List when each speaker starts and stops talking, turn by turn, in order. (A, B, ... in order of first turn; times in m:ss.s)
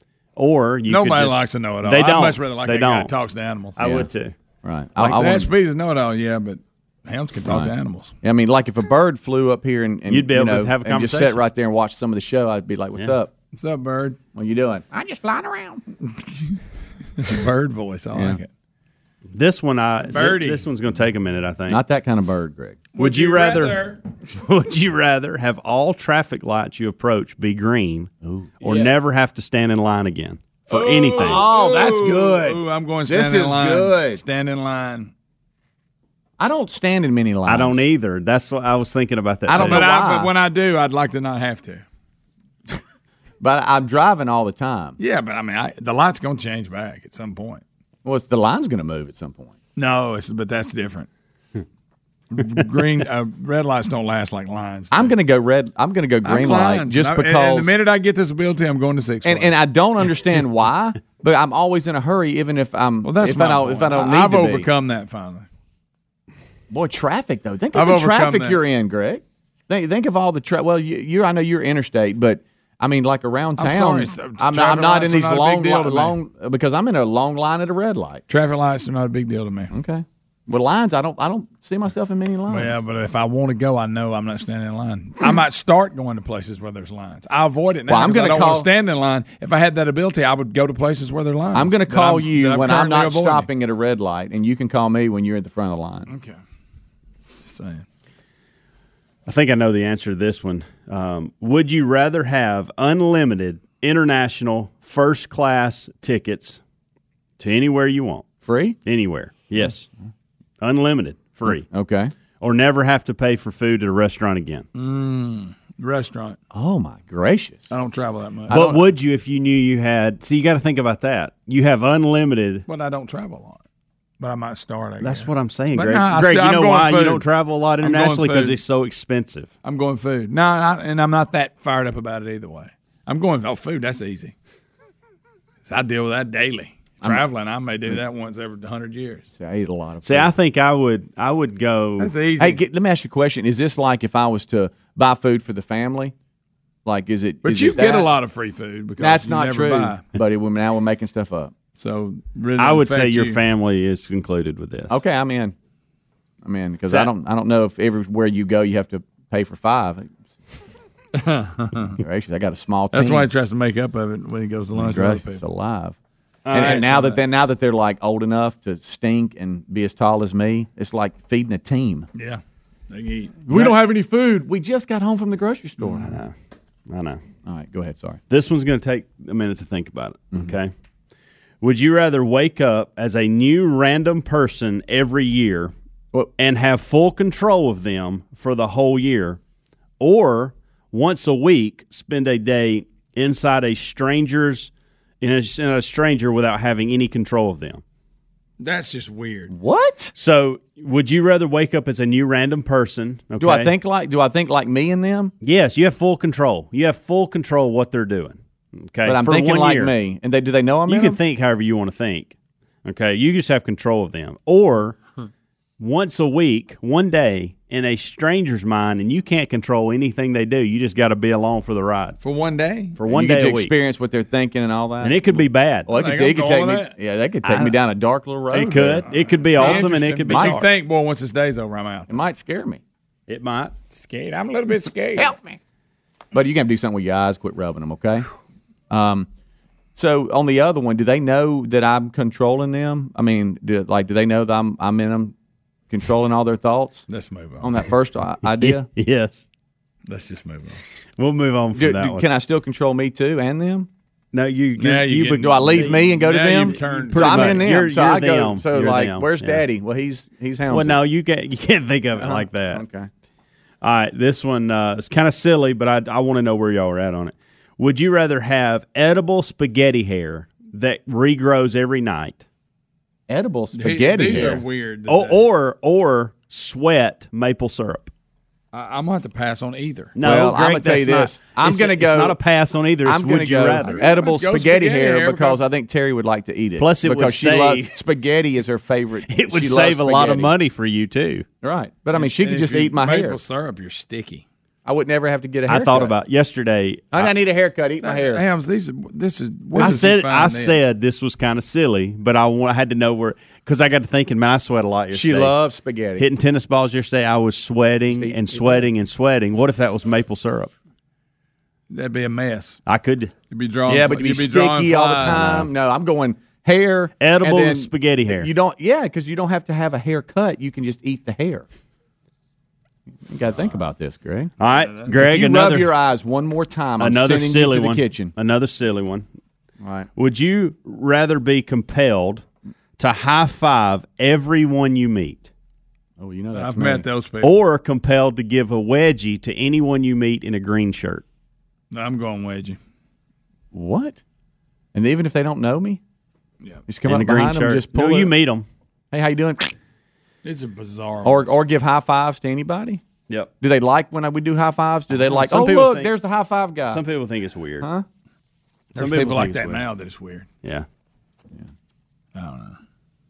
0:00.4-0:03.1 A
0:00.9-0:03.8 B
0:03.8-0:04.3 A
0:03.8-0:04.1 C
0:04.6-0:05.5 C
0:05.0-0:08.1 B
0:07.4-0:13.3 C
0:10.1-0:11.4 A
0:13.5-0:14.2 B
0:14.3-0:15.8 C
0:16.1-0:16.6 B
0:17.2-0:18.5 B
0:18.1-0:18.4 C
0:19.3-0:21.8 A
0:20.1-0:20.6 B
0:21.7-0:22.8 C
0:22.9-0:24.0 B
0:23.0-0:28.1 A
0:28.2-0:28.9 C
0:28.6-0:31.5 A
0:30.7-0:35.1 B
0:31.2-0:34.2 C
0:36.4-0:37.8 C
0:37.5-0:39.9 A
0:39.4-0:40.3 C
0:39.5-0:41.8 B
0:43.4-0:45.0 C
0:45.0-0:47.6 B
0:48.0-0:49.5 C
0:49.8-0:51.1 B
0:52.3-0:55.1 B
0:54.9-0:57.7 C
0:56.2-0:59.5 B
0:59.2-1:04.7 C
1:03.0-1:05.4 B
1:06.7-1:18.2 C
1:07.7-1:08.6 B
1:13.6-1:16.2 B
1:18.3-1:19.7 B
1:19.7-1:22.7 C
1:22.5-1:33.5 B
1:27.9-1:28.7 C
1:31.5-1:36.1 C
1:36.1-1:36.4 B
1:37.4-1:37.8 B
1:39.2-1:46.6 A
1:47.4-1:48.2 A
1:48.4-1:48.8 C
1:48.8-1:49.9 A
1:50.6-1:51.6 A
1:51.4-1:52.1 C
1:52.4-1:54.6 A
1:54.7-1:56.4 B
1:56.5-1:57.7 C
1:57.7-1:58.5 B
1:58.5-1:58.8 C
1:58.5-2:02.6 A
2:02.7-2:03.6 B
2:04.2-2:07.2 B
2:05.0-2:09.5 A
2:07.8-2:08.6 B
2:09.6-2:14.3 B
2:15.6-2:19.3 B
2:19.4-2:20.3 C
2:20.0-2:22.1 A
2:22.0-2:22.6 B
2:22.4-2:26.1 C
2:26.8-2:28.1 C
2:27.4-2:30.0 B
2:29.0-2:31.5 C
2:31.8-2:33.4 B
2:32.6-2:34.9 A
2:34.9-2:35.5 C
2:36.4-2:40.1 C
2:41.1-2:42.0 B
2:42.0-2:43.3 C
2:42.9-2:45.4 B
2:44.7-2:46.0 C
2:46.4-2:46.9 A
2:46.5-2:52.1 C
2:46.5-2:47.2 B
2:52.1-2:53.8 B
2:53.5-2:56.2 C
2:55.9-2:56.3 A
2:56.9-2:57.2 A
2:57.4-2:58.2 C
2:58.3-3:00.7 A
3:01.6-3:05.7 A
3:06.4-3:09.4 A
3:10.0-3:17.8 A
3:18.6-3:19.5 B
3:19.5-3:20.1 C
3:20.2-3:23.7 A
3:23.4-3:25.3 C
3:25.4-3:29.9 A
3:29.0-3:31.2 C
3:30.9-3:35.0 A
3:35.8-3:42.2 A
3:42.2-3:43.0 B
3:43.0-3:43.7 A
3:43.1-3:50.6 C
3:45.0-3:45.9 A
3:45.9-3:46.9 B
3:47.4-3:47.7 A
3:48.5-3:50.7 A
3:49.0-3:52.2 B
3:52.1-3:52.8 C
3:53.3-3:53.7 A
3:53.9-3:55.4 B
3:55.2-3:55.5 C
3:56.3-3:58.2 C
3:58.9-3:59.3 C
4:00.0-4:05.3 C
4:05.9-4:07.0 C
4:07.1-4:07.7 B
4:07.6-4:08.9 C
4:08.5-4:09.4 A
4:10.0-4:10.8 B
4:11.2-4:12.2 A
4:11.7-4:13.9 C
4:14.3-4:19.6 A
4:14.8-4:17.7 B
4:15.3-4:21.0 C
4:20.7-4:22.8 A
4:22.2-4:23.1 C
4:23.8-4:32.4 A
4:33.3-4:34.6 C
4:33.7-4:35.4 B
4:34.2-4:38.1 A
4:38.7-4:40.1 B
4:40.1-4:44.1 A
4:40.2-4:42.4 C
4:43.0-4:50.5 C
4:43.8-4:45.6 B
4:46.8-4:48.0 A
4:49.3-4:51.4 A
4:51.6-4:53.4 C
4:52.1-4:54.4 B
4:54.8-4:56.1 C
4:55.7-4:57.3 A
4:57.1-4:58.4 C
4:58.0-5:00.8 B
4:59.7-5:00.1 C
4:59.7-5:05.5 A
5:05.1-5:06.3 C
5:06.2-5:10.7 A
5:08.1-5:08.9 C
5:11.9-5:12.8 B
5:12.8-5:13.3 A
5:13.5-5:15.5 B
5:13.8-5:21.6 C
5:15.2-5:15.7 A
5:17.2-5:18.5 A
5:23.2-5:24.5 C
5:24.6-5:25.9 A
5:24.6-5:25.2 B
5:25.1-5:28.3 C
5:27.0-5:29.2 A
5:29.8-5:30.1 C
5:30.2-5:32.4 A
5:33.0-5:35.5 A
5:36.2-5:37.0 C
5:36.5-5:37.5 B
5:37.4-5:41.2 A
5:41.9-5:42.8 B
5:43.7-5:44.2 C
5:44.9-5:46.0 C
5:46.9-5:48.3 C
5:47.1-5:48.6 A
5:49.1-5:49.7 C
5:50.4-5:51.5 B
5:51.2-5:53.0 C
5:53.6-5:57.0 C
5:55.2-5:56.1 A
5:56.9-5:57.9 A
5:57.8-5:58.0 C
5:58.9-5:59.8 A
5:59.0-6:00.5 B
6:02.3-6:02.8 B